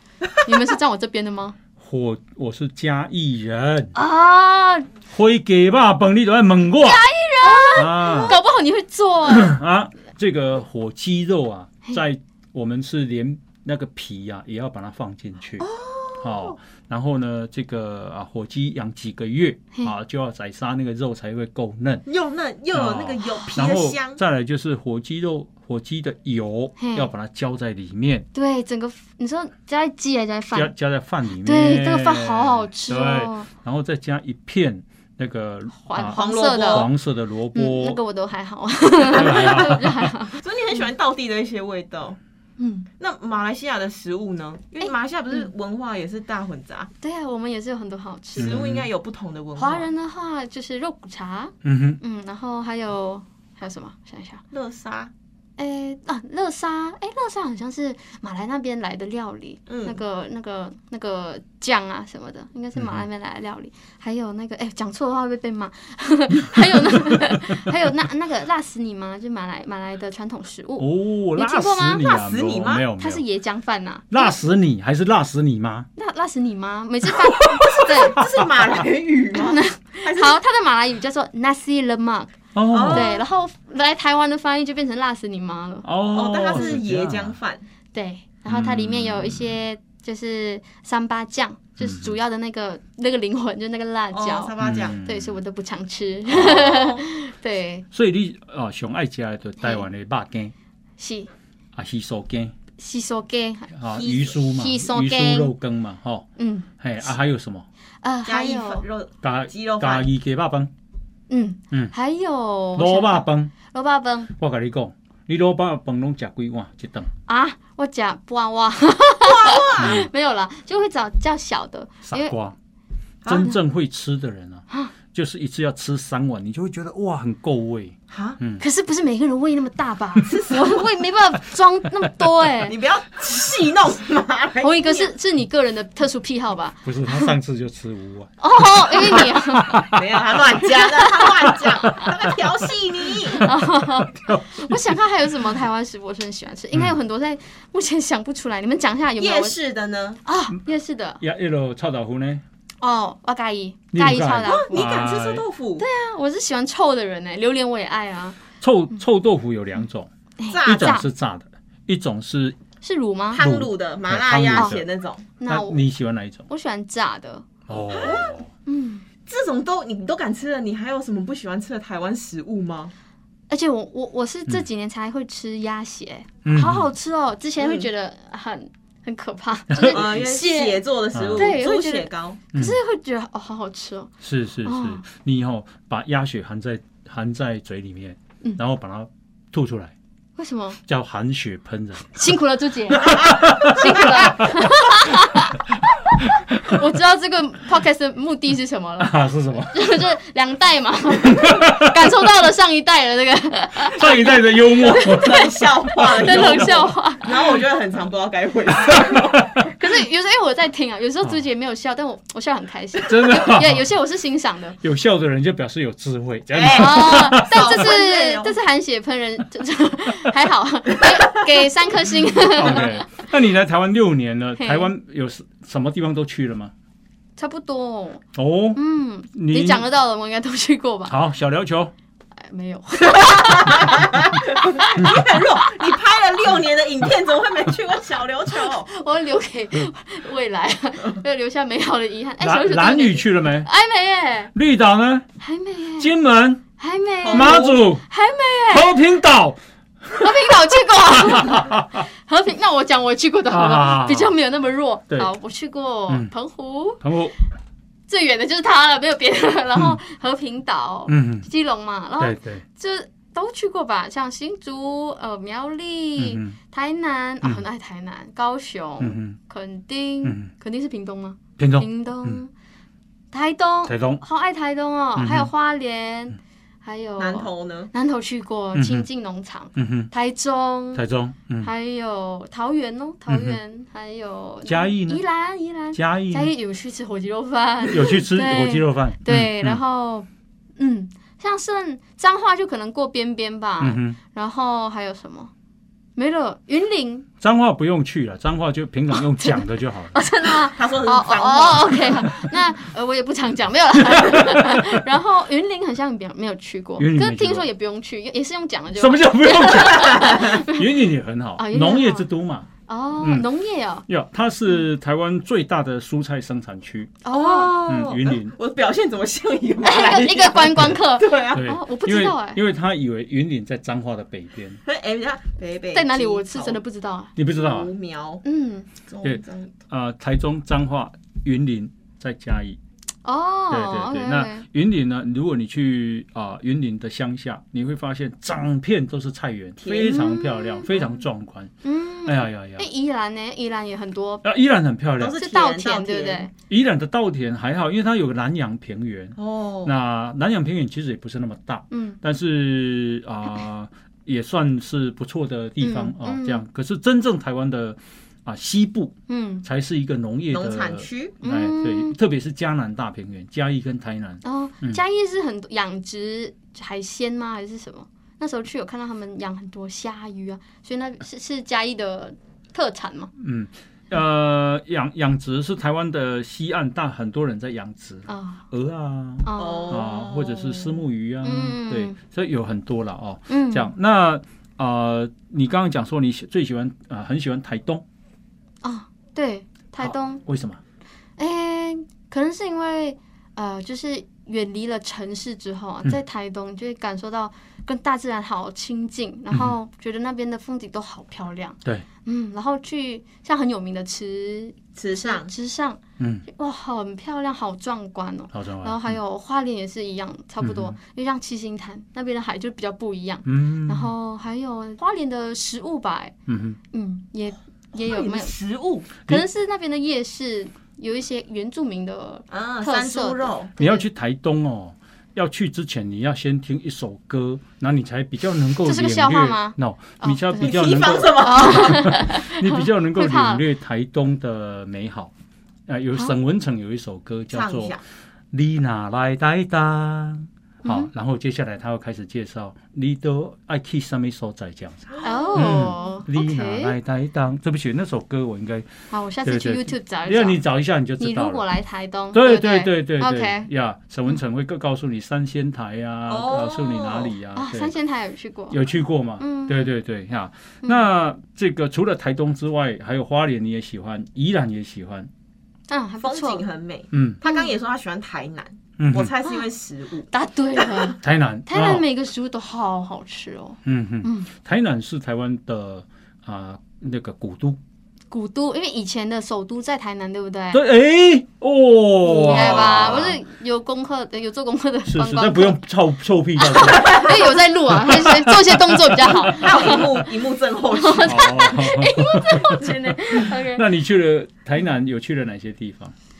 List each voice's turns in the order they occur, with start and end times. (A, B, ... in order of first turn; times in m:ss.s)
0:00.4-0:01.6 A
0:01.8-0:03.9 B
0:03.9-0:04.9 A
0:05.1-0:07.0 B
0:06.8-0:09.6 A
0:07.7-0:08.4 B
0:09.3-0:22.0 B
0:15.7-0:16.1 C
0:22.0-0:24.2 C
0:22.7-0:28.2 B
0:26.8-0:27.1 A
0:28.3-0:30.7 A
0:30.5-0:38.0 B
0:31.4-0:33.5 A
0:35.8-0:36.9 A
0:36.1-0:36.9 C
0:37.5-0:40.8 A
0:39.1-0:40.1 B
0:39.1-0:39.5 C
0:40.4-0:42.2 C
0:42.6-0:42.9 A
0:43.0-0:46.9 C
0:47.0-0:48.6 A
0:48.4-0:49.9 C
0:48.4-0:48.9 B
0:49.6-0:54.4 A
0:51.6-0:52.0 B
0:54.5-0:55.1 C
0:55.6-1:12.2 A
0:59.7-1:00.0 C
1:02.7-1:03.0 B
1:10.8-1:13.2 B
1:12.0-1:12.8 C
1:13.0-1:14.4 A
1:14.1-1:15.9 B
1:16.0-1:18.3 A
1:17.3-1:18.2 B
1:17.7-1:20.4 C
1:19.3-1:25.9 A
1:22.5-1:23.2 B
1:22.7-1:23.2 C
1:25.8-1:27.3 B
1:26.1-1:27.6 C
1:27.9-1:37.8 A
1:28.5-1:29.5 B
1:31.8-1:32.1 B
1:34.1-1:35.0 C
1:34.6-1:35.4 B
1:36.3-1:36.8 B
1:36.4-1:37.0 C
1:37.9-1:40.5 B
1:39.6-1:39.8 A
1:41.0-1:41.3 A
1:41.7-1:42.5 B
1:42.8-1:43.7 A
1:43.7-1:46.2 B
1:44.0-1:44.3 C
1:44.3-1:45.5 A
1:46.4-1:46.7 A
1:46.8-1:47.6 B
1:48.0-1:48.8 A
1:48.2-1:50.1 C
1:49.2-1:50.7 B
1:51.3-1:54.3 A
1:52.8-1:53.5 B
1:54.4-1:57.1 B
1:57.3-2:02.4 A
1:59.2-2:00.0 C
1:59.8-2:00.1 B
2:02.0-2:02.5 B
2:03.2-2:03.5 C
2:03.2-2:08.6 B
2:08.1-2:08.4 C
2:08.6-2:12.8 A
2:10.2-2:10.9 C
2:12.6-2:15.1 C
2:14.6-2:17.3 A
2:16.8-2:19.9 B
2:18.4-2:19.8 A
2:19.9-2:23.5 C
2:21.2-2:22.3 B
2:23.3-2:29.6 A
2:24.0-2:24.8 B
2:29.2-2:30.2 C
2:30.2-2:31.2 A
2:31.2-2:32.4 B
2:32.8-2:34.9 A
2:33.9-2:35.4 B
2:34.4-2:35.9 C
2:35.8-2:38.4 A
2:38.6-2:40.1 B
2:40.4-2:41.0 A
2:40.5-2:41.0 C
2:40.6-2:42.6 B
2:42.8-2:43.4 A
2:43.3-2:45.3 C
2:43.4-2:44.8 B
2:45.4-2:45.8 A
2:45.4-2:46.5 B
2:46.5-2:49.0 A
2:47.7-2:48.5 B
2:47.9-2:48.3 C
2:49.3-2:52.9 C
2:53.5-3:05.0 A
2:56.4-2:56.9 B
2:57.6-2:57.9 C
2:59.7-3:00.0 B
2:59.9-3:02.4 C
3:01.1-3:01.5 B
3:04.2-3:09.9 B
3:10.4-3:10.8 A
3:10.8-3:12.2 B
3:12.1-3:15.6 A
3:12.9-3:14.6 B
3:16.2-3:16.8 B
3:16.6-3:24.4 A
3:19.0-3:19.8 B
3:21.2-3:21.9 B
3:23.8-3:26.9 B
3:24.7-3:29.4 C
3:26.0-3:27.6 A
3:29.0-3:29.7 B
3:29.6-3:34.8 A
3:33.0-3:33.8 B
3:34.8-3:37.7 B
3:36.5-3:38.6 C
3:36.7-3:43.0 A
3:41.0-3:41.4 C
3:42.4-3:46.7 B
3:44.6-3:44.9 A
3:47.4-3:48.2 A
3:48.3-3:48.8 B
3:48.7-3:51.1 A
3:49.3-3:49.8 B
3:51.1-3:51.9 B
3:52.4-3:55.4 A
3:53.1-3:58.9 C
3:58.5-4:04.5 A
4:02.4-4:03.7 B
4:04.5-4:05.2 B
4:05.4-4:06.1 A
4:06.0-4:06.6 B
4:06.8-4:09.0 A
4:07.2-4:07.8 C
4:07.3-4:08.0 B
4:08.7-4:12.0 B
4:10.2-4:17.0 A
4:13.5-4:14.3 B
4:17.0-4:17.3 B
4:18.1-4:32.5 A
4:21.1-4:21.5 B
4:22.2-4:22.6 B
4:26.2-4:26.5 B
4:29.0-4:29.4 B
4:30.2-4:30.5 B
4:31.6-4:32.4 B
4:33.3-4:41.0 A
4:33.8-4:34.2 B
4:35.2-4:35.5 B
4:37.2-4:37.9 C
4:38.7-4:39.0 B
4:39.8-4:40.1 B
4:40.9-4:41.7 B
4:41.6-4:55.5 A
4:43.3-4:43.6 B
4:44.6-4:45.2 B
4:45.9-4:46.5 B
4:47.9-4:49.8 B
4:53.8-4:54.2 B
4:56.2-4:57.3 A
4:57.4-5:00.2 B
4:59.1-5:11.1 A
5:00.6-5:02.2 C
5:02.2-5:02.5 B
5:04.0-5:05.0 B
5:07.0-5:07.7 B
5:08.9-5:12.7 B
5:09.9-5:10.6 C
5:11.6-5:12.3 A
5:12.9-5:14.1 A
5:13.2-5:13.5 B
5:14.1-5:17.1 B
5:17.2-5:17.8 A
5:17.3-5:21.7 C
5:17.8-5:18.5 B
5:19.8-5:22.6 A
5:21.5-5:24.8 B
5:24.8-5:26.8 C
5:25.9-5:27.3 A
5:27.4-5:27.9 B
5:27.5-5:28.4 C
5:28.4-5:28.9 A
5:29.1-5:29.8 C
5:29.2-5:32.8 B
5:33.2-5:34.6 A
5:33.7-5:41.7 B
5:39.8-5:40.2 C
5:40.0-5:40.9 A
5:41.8-5:44.4 A
5:42.2-5:42.8 B
5:44.4-5:45.4 B
5:45.2-5:46.5 C
5:45.4-5:46.5 A
5:46.7-6:05.0 B
5:49.4-5:49.9 C
5:51.9-5:52.2 A
5:55.8-5:56.6 A
5:59.3-5:59.6 A
6:00.5-6:01.4 C
6:01.4-6:02.1 A
6:04.4-6:13.3 A
6:13.4-6:28.0 B
6:18.3-6:18.6 A
6:19.4-6:20.0 A
6:19.6-6:21.0 C
6:21.4-6:22.2 A
6:23.5-6:23.9 A
6:28.8-6:30.4 A
6:30.0-6:30.8 B
6:31.4-6:56.3 A
6:45.0-6:45.5 C
6:46.2-6:46.4 B
6:48.5-6:49.2 B
6:50.6-6:51.0 B
6:53.4-6:54.1 B
6:56.5-6:56.8 B
6:56.9-6:58.5 A
6:57.9-6:59.1 C
6:59.3-7:04.0 A
7:02.5-7:03.7 C
7:03.8-7:15.3 B
7:08.8-7:10.7 A
7:10.6-7:12.1 C
7:11.3-7:13.6 A
7:15.9-7:18.0 B
7:17.5-7:18.0 C
7:18.5-7:28.9 B
7:20.8-7:21.1 A
7:25.1-7:26.1 C
7:25.2-7:27.0 A
7:29.1-7:30.6 A
7:29.4-7:31.6 B
7:31.2-7:33.7 A
7:32.3-7:37.9 B
7:36.3-7:37.3 C
7:37.5-7:38.8 A
7:38.7-7:45.3 B
7:39.4-7:39.9 A
7:45.9-7:46.6 A
7:46.2-7:51.1 C
7:47.1-7:47.4 B
7:47.4-7:47.7 A
7:49.0-7:49.3 B
7:50.3-7:54.5 A
7:51.2-7:52.0 B
7:53.8-7:57.8 B
7:58.3-8:00.8 A
8:00.7-8:03.4 B
8:02.3-8:03.3 C
8:02.3-8:05.8 A
8:05.1-8:10.0 B
8:06.6-8:10.2 A
8:09.5-8:11.7 C
8:10.9-8:13.8 A
8:11.2-8:16.1 B